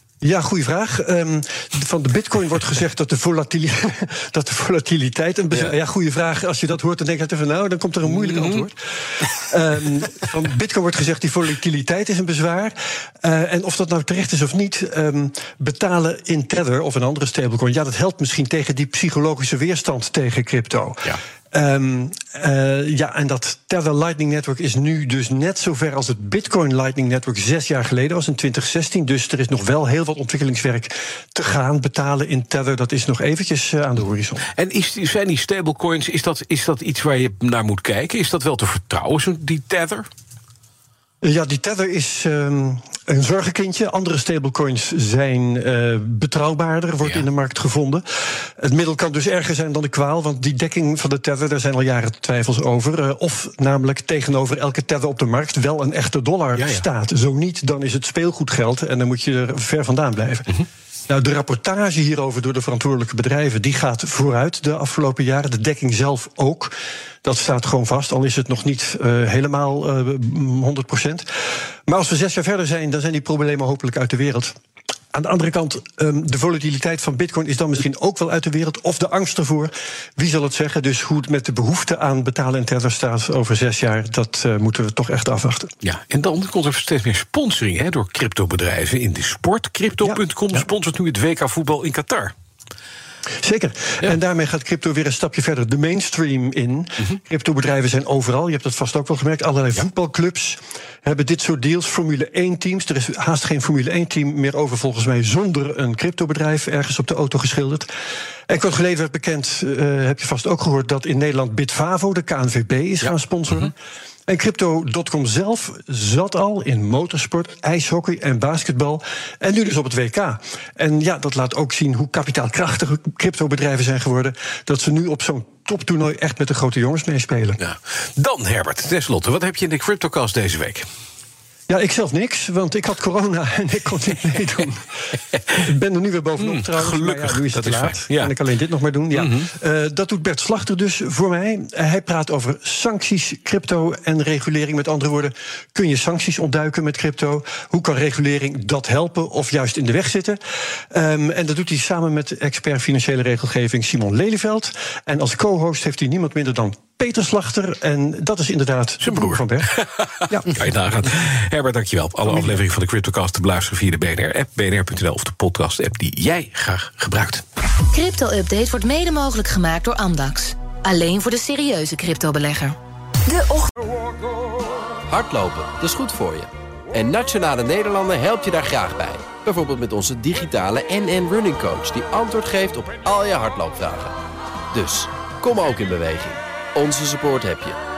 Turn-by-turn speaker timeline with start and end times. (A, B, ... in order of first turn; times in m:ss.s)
0:00.2-0:08.8 A
0:08.1-0:08.7 B
0:09.3-0:34.5 A
0:34.6-0:40.1 B
0:41.2-1:11.3 A
0:56.6-0:56.8 B
1:11.9-1:14.5 A
1:15.1-1:25.7 A
1:25.8-1:32.3 B
1:33.4-1:47.9 A
1:48.5-1:53.8 A
1:54.3-2:07.6 A
2:07.6-2:10.9 B
2:11.7-2:30.4 A
2:16.4-2:18.3 B
2:19.1-2:19.5 B
2:30.9-2:39.7 A
2:39.0-2:47.4 B
2:40.3-2:40.5 A
2:47.9-2:53.7 C
2:55.1-3:04.2 D
3:04.7-3:07.8 D